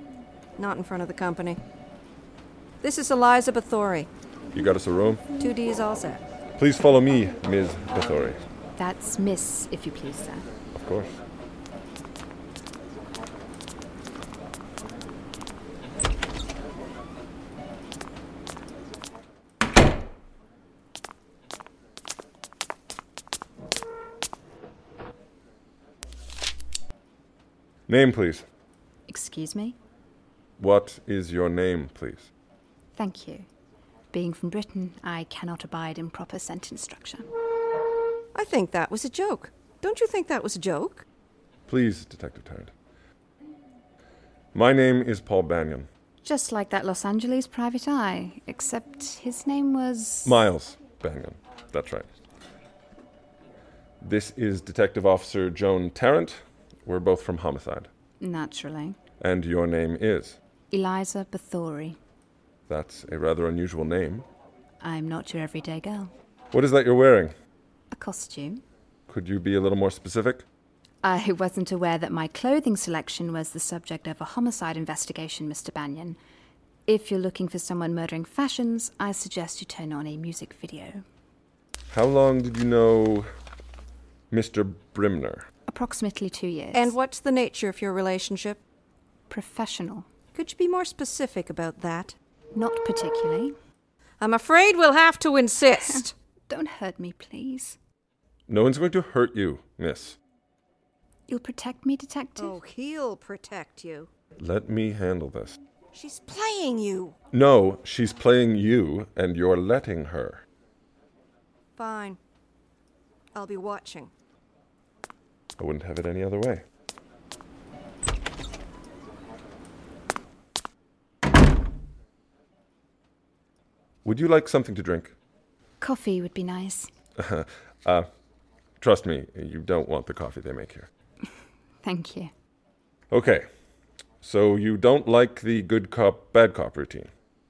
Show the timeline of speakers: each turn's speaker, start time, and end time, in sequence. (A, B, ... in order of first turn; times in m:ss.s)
0:00.6-0:01.6 A
0:02.8-0:04.1 A
0:04.5-0:05.2 B
0:05.4-0:06.2 A
0:06.6-0:08.4 B
0:08.8-0:10.4 C
0:10.7-0:11.2 B
0:27.9-0:28.4 B
0:29.1-0:29.8 C
0:30.6-0:32.3 B
0:32.9-0:33.5 C
0:34.1-0:37.2 C
0:38.3-0:41.0 A
0:41.7-0:42.7 B
0:44.5-0:45.9 B
0:46.2-0:50.3 C
0:50.2-0:52.1 B
0:54.0-0:57.9 B
0:58.2-0:59.0 C
0:59.2-1:00.4 B
1:00.7-1:02.0 C
1:02.7-1:04.3 B
1:04.8-1:06.1 C
1:06.5-1:07.3 B
1:07.9-1:08.6 C
1:09.1-1:10.4 B
1:11.0-1:16.2 C
1:16.9-1:21.0 C
1:21.9-1:23.3 B
1:24.3-1:25.4 B
1:25.7-1:26.9 C
1:26.7-1:28.6 A
1:29.3-1:30.1 C
1:30.3-1:32.2 A
1:32.5-1:33.6 C
1:34.2-1:36.1 A
1:36.5-1:37.8 C
1:38.5-1:40.2 B
1:41.3-1:42.6 C
1:42.4-1:44.1 A
1:44.4-1:45.6 B
1:45.9-1:47.1 A
1:47.3-1:50.4 B
1:51.8-1:52.2 A
1:53.3-1:54.1 A
1:55.6-1:56.6 B
2:04.0-2:05.1 B
2:05.8-2:06.9 C
2:07.2-2:08.1 B
2:08.8-2:10.9 B
2:11.8-2:12.3 C
2:13.1-2:13.5 B
2:14.2-2:17.1 B